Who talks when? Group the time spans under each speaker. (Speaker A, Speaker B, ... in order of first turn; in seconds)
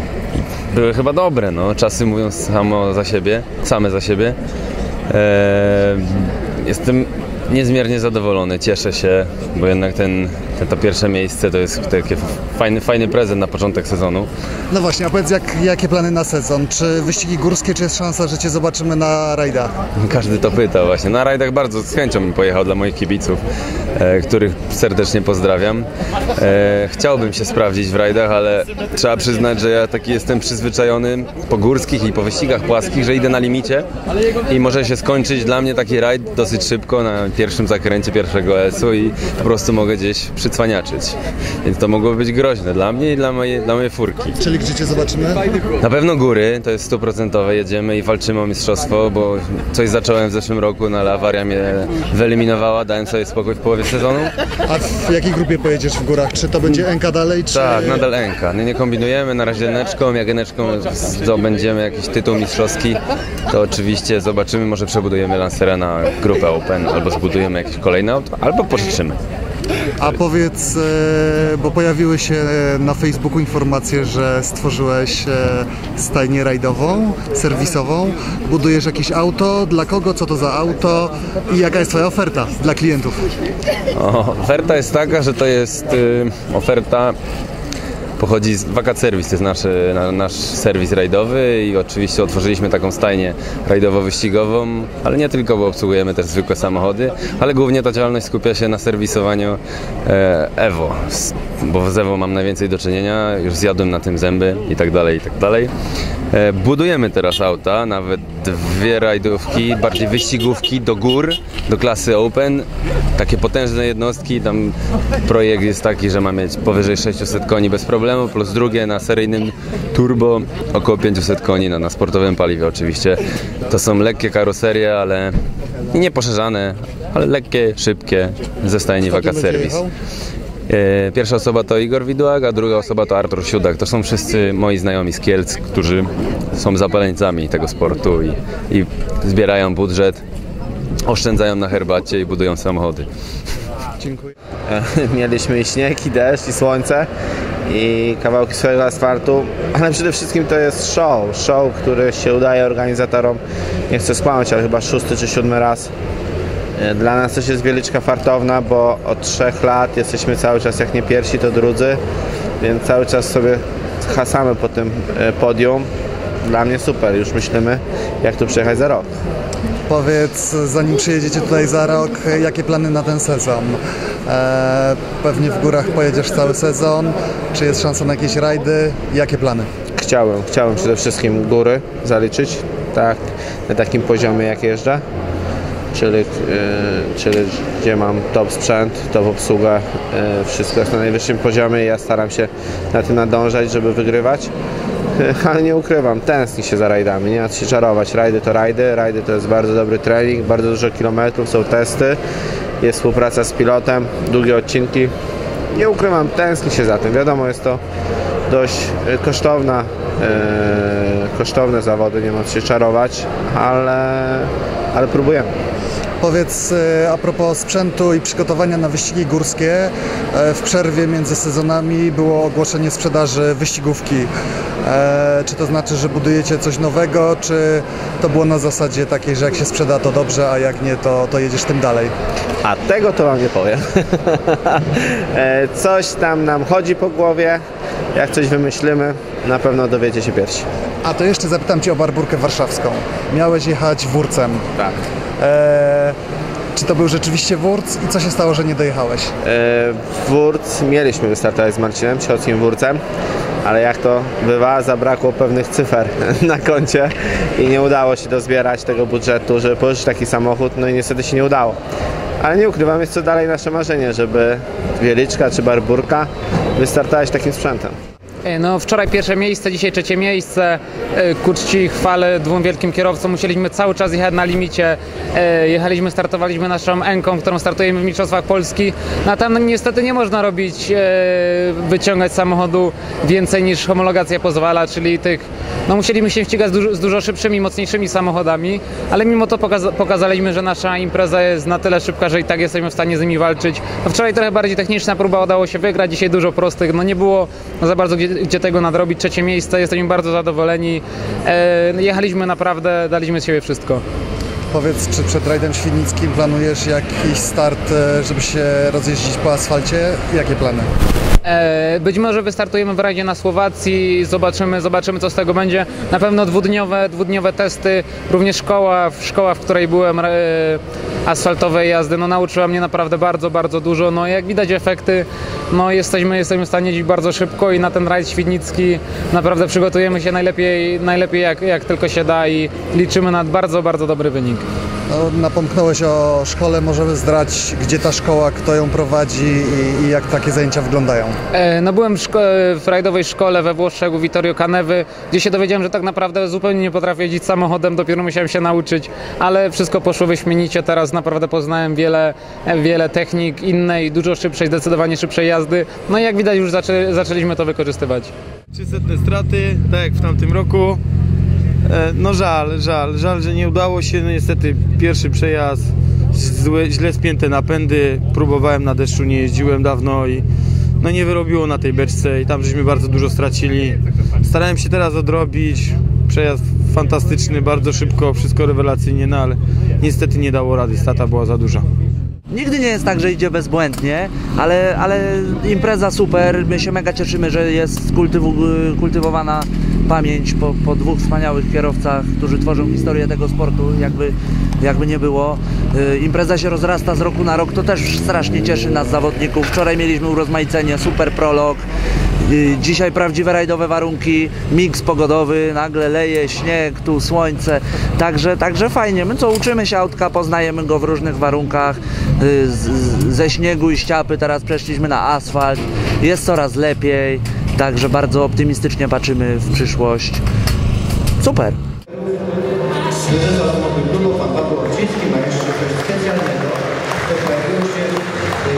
Speaker A: 0.7-4.4, 5.1-14.3, 20.0-23.4, 24.0-33.9, 34.5-44.4, 45.8-54.3, 57.5-69.2, 83.9-87.2, 88.2-105.7, 106.3-125.3, 125.9-129.8, 130.7-140.2, 141.1-143.1
Speaker B: 14.7-19.7, 44.4-45.4, 54.7-58.1, 70.0-83.3, 129.1-129.9, 169.9-179.7, 216.2-224.3, 224.8-232.1, 241.0-244.7, 245.4-246.2, 246.8-249.3, 304.7-310.9, 335.1-341.4
Speaker C: 144.7-147.1, 147.7-155.9, 156.8-162.0, 162.6-165.9, 166.5-169.1, 180.0-185.0, 185.9-194.5, 195.2-202.2, 202.8-205.1, 205.8-207.8, 208.5-215.5, 232.6-237.6, 238.2-240.7, 249.4-253.0, 253.6-261.8, 262.4-268.0
Speaker D: 268.4-304.0, 311.4-334.6, 341.5-358.3
Speaker E: 358.7-361.0, 361.9-370.4, 371.0-381.9
Speaker F: 382.5-401.8, 402.4-420.4, 421.4-421.8, 423.3-426.8, 427.4-428.1